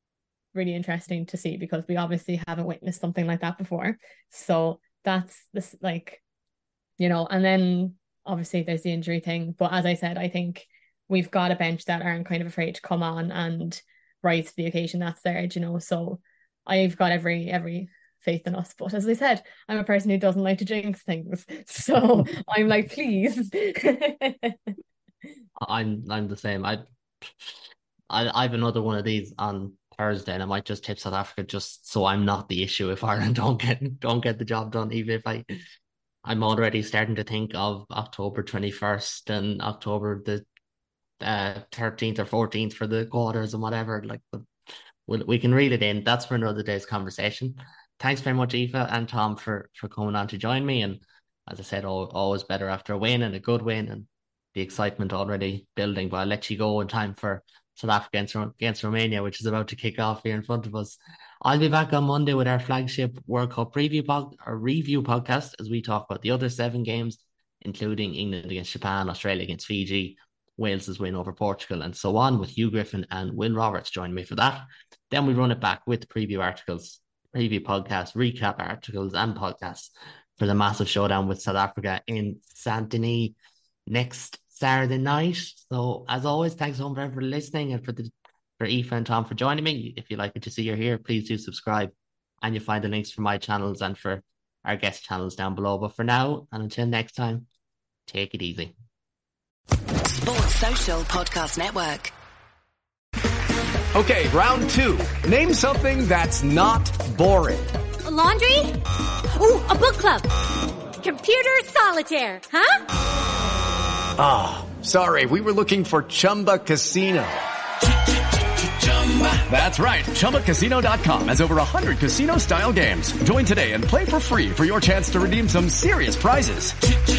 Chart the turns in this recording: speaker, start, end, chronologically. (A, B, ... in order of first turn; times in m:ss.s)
0:00.5-0:06.2 A
0:07.0-0:24.7 A
0:25.6-0:35.5 B
0:36.2-0:40.4 B
0:41.2-0:44.5 B
0:45.1-1:23.3 B
1:23.9-1:37.4 B
1:38.1-1:38.7 B
1:40.0-1:42.1 C
1:43.9-1:47.7 D
1:48.0-1:48.8 E
1:49.3-1:50.3 E
1:51.0-1:52.8 E
1:54.2-1:57.4 D
1:59.3-2:06.8 D